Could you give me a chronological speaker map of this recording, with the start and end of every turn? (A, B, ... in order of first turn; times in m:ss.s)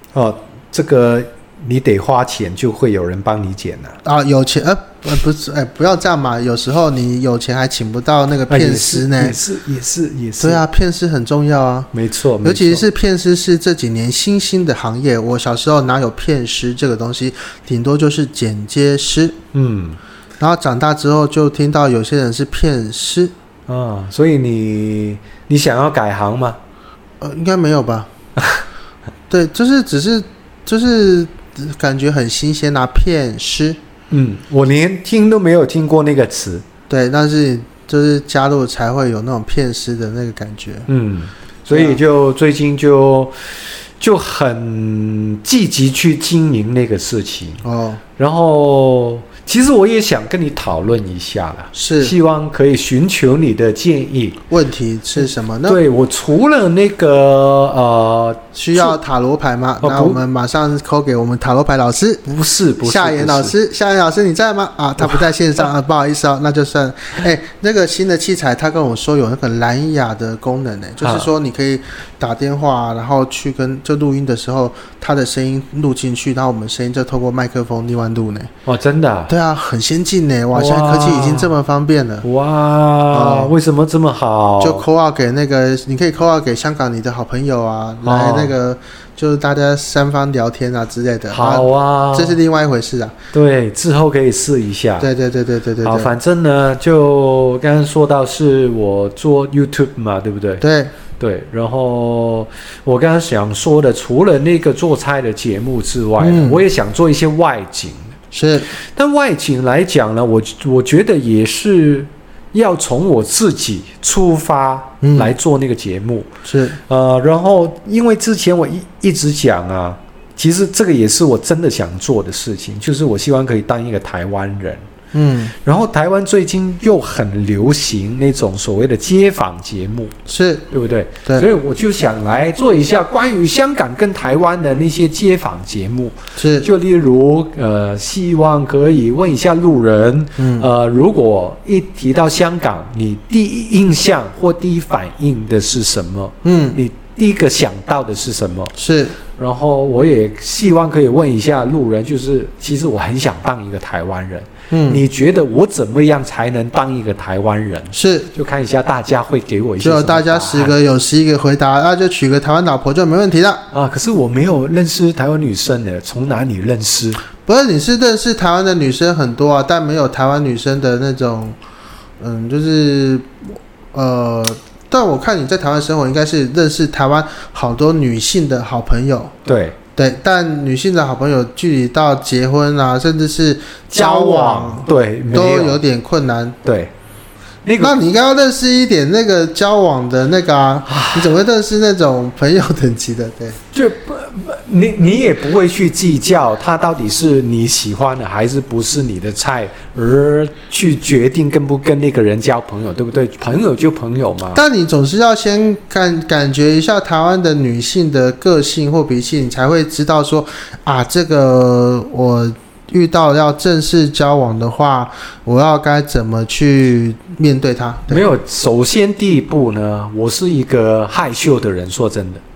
0:00.1-0:04.0 A
0:04.0-0:09.3 B
0:08.5-0:10.6 A
0:10.4-0:11.9 B
0:11.9-0:12.8 A
0:12.4-0:19.4 B
0:19.5-0:20.0 A
0:20.4-0:23.3 B
0:23.7-0:26.6 A
0:27.2-0:28.1 B
0:28.4-0:28.6 A
0:29.3-0:33.8 B
0:34.1-0:36.6 A
0:36.9-0:40.9 B
0:40.9-0:47.6 A
0:41.7-0:42.0 B
0:47.6-0:48.0 B
0:48.2-0:54.4 A
0:51.7-0:52.1 B
0:54.5-0:55.8 B
0:55.6-0:59.0 A
0:58.5-1:02.2 B
0:59.8-1:00.2 A
1:02.2-1:03.5 A
1:02.8-1:18.5 B
1:11.0-1:11.3 A
1:18.6-1:19.3 A
1:19.3-1:22.2 B
1:20.5-1:21.5 A
1:22.2-1:24.9 A
1:23.1-1:23.5 B
1:24.6-1:33.1 B
1:28.0-1:28.5 A
1:31.3-1:32.4 A
1:33.3-1:35.1 A
1:35.0-1:36.1 B
1:35.8-1:40.6 A
1:40.6-1:40.9 B
1:41.2-1:48.1 A
1:46.2-1:46.6 B
1:48.3-1:48.7 B
1:48.9-1:56.3 A
1:55.0-1:55.3 B
1:56.4-1:56.8 B
1:56.9-2:04.8 A
2:05.1-2:05.5 B
2:05.6-2:10.1 A
2:10.3-2:10.6 B
2:10.7-2:28.7 A
2:16.4-2:16.7 B
2:20.4-2:20.7 B
2:26.4-2:26.8 B
2:28.7-2:29.2 B
2:29.3-2:40.7 A
2:34.7-2:35.0 B
2:37.9-2:38.3 B
2:39.8-2:43.6 B
2:43.7-2:47.2 A
2:47.4-2:51.6 B
2:52.2-2:53.3 B
2:53.9-2:59.3 B
2:59.4-2:59.8 A
3:00.0-3:06.6 B
3:03.9-3:05.8 A
3:06.6-3:06.9 A
3:07.6-3:08.0 A
3:07.8-3:13.6 B
3:10.8-3:11.4 A
3:13.7-3:24.6 A
3:24.5-3:38.3 B
3:38.1-3:42.4 A